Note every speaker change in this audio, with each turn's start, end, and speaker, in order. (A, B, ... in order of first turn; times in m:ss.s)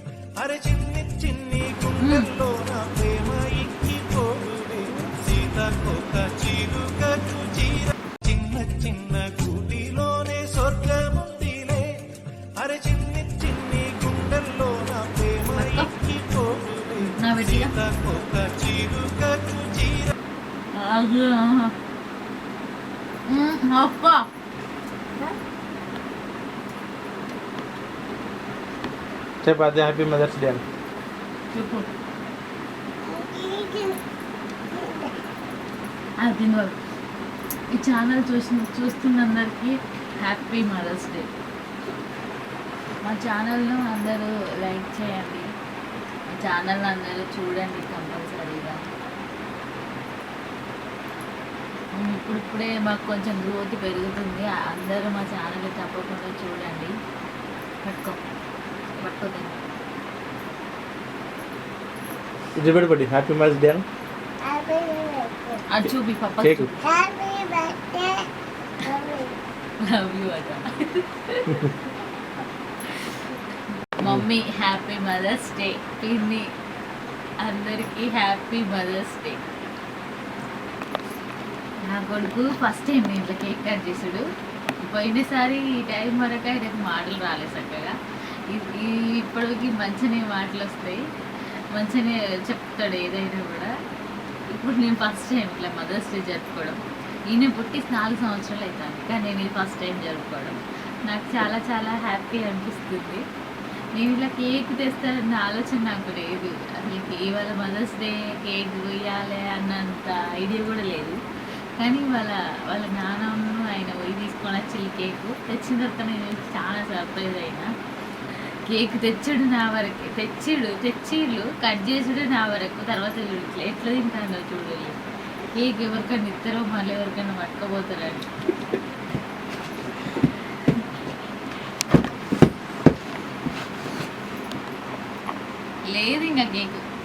0:00.4-0:11.8 A
0:02.0-0:02.3 B
0:12.6-0:20.1 A
0:15.6-0:15.9 B
0:17.0-0:17.7 B
0:20.8-0:21.7 B
0:23.3-0:24.3 B
0:29.4-0:30.6 C
0:31.5-0:31.9 B
0:33.1-0:34.0 D
0:34.7-0:35.2 D
0:36.2-0:36.7 B
0:37.8-0:41.2 B
0:43.0-0:45.4 B
0:46.3-0:48.8 B
0:52.0-0:56.9 B
0:57.8-0:58.2 B
0:59.0-0:59.5 B
1:02.6-1:03.8 C
1:04.4-1:05.6 D
1:05.7-1:06.7 B
1:06.4-1:06.7 C
1:06.8-1:08.2 D
1:08.8-1:09.4 D
1:09.8-1:11.9 B
1:12.9-1:13.3 B
1:14.0-1:16.4 B
1:17.4-1:19.4 B
1:21.8-1:24.2 B
1:24.9-1:27.9 B
1:28.5-1:31.0 B
1:31.7-1:33.7 B
1:34.5-1:43.2 B
1:44.0-1:51.2 B
1:51.8-1:57.7 B
1:58.7-2:05.0 B
2:05.6-2:08.3 B
2:10.2-2:10.7 B
2:15.9-2:16.8 B